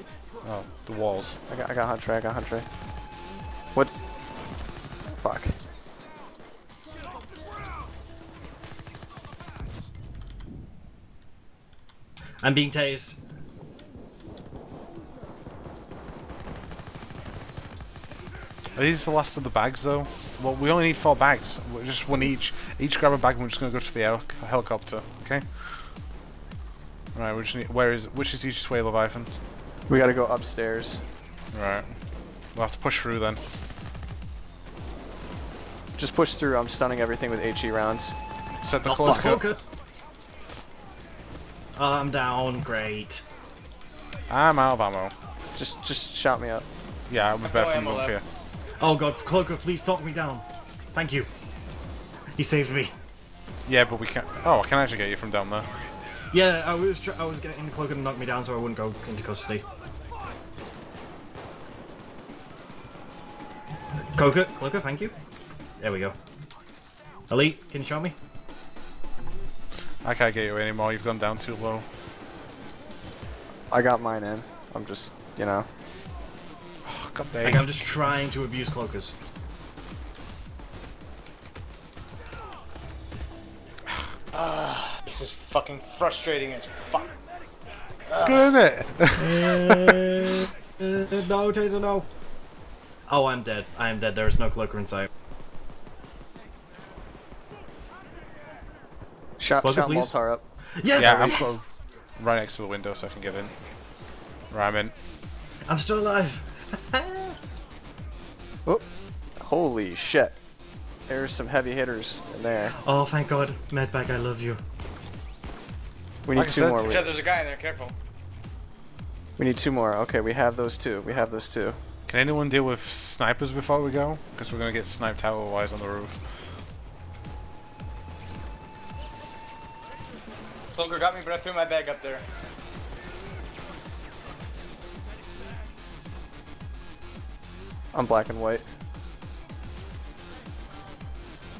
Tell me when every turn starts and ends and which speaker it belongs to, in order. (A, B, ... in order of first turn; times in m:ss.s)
0:00.4-0:01.4 A
0:01.5-0:02.6 B
0:03.7-0:04.0 B
0:05.1-0:05.6 B
0:12.4-0:13.2 C
0:18.7-0:25.8 A
0:27.1-0:29.3 A
0:29.9-0:31.0 B
0:31.5-0:31.9 A
0:32.5-0:33.4 A
0:36.0-0:38.2 B
0:38.6-0:39.6 A
0:38.8-0:39.6 C
0:41.8-0:43.2 C
0:44.3-0:45.1 A
0:45.5-0:46.6 B
0:47.1-0:48.2 A
0:47.4-0:48.2 D
0:48.8-0:51.3 C
0:52.3-0:52.9 C
0:53.7-0:55.7 A
0:56.3-0:59.6 C
1:04.1-1:05.1 C
1:05.8-1:06.2 C
1:07.3-1:08.2 C
1:10.0-1:11.8 A
1:13.7-1:15.7 B
1:16.8-1:17.7 A
1:17.4-1:19.1 C
1:24.3-1:27.1 D
1:28.1-1:28.4 D
1:28.1-1:30.2 A
1:29.2-1:32.1 C
1:33.1-1:35.1 C
1:39.4-1:40.4 B
1:39.6-1:40.2 C
1:40.7-1:41.6 C
1:40.9-1:41.6 A
1:42.2-1:43.5 A
1:44.5-1:44.9 A
1:45.6-1:47.4 C
1:49.4-1:50.4 B
1:51.1-1:52.7 B
1:52.8-1:54.6 C
1:56.2-1:57.2 B
1:56.3-1:57.0 A
1:56.8-1:57.9 D
1:59.4-2:01.8 B
2:02.1-2:06.2 A
2:10.7-2:12.2 D
2:17.9-2:18.6 B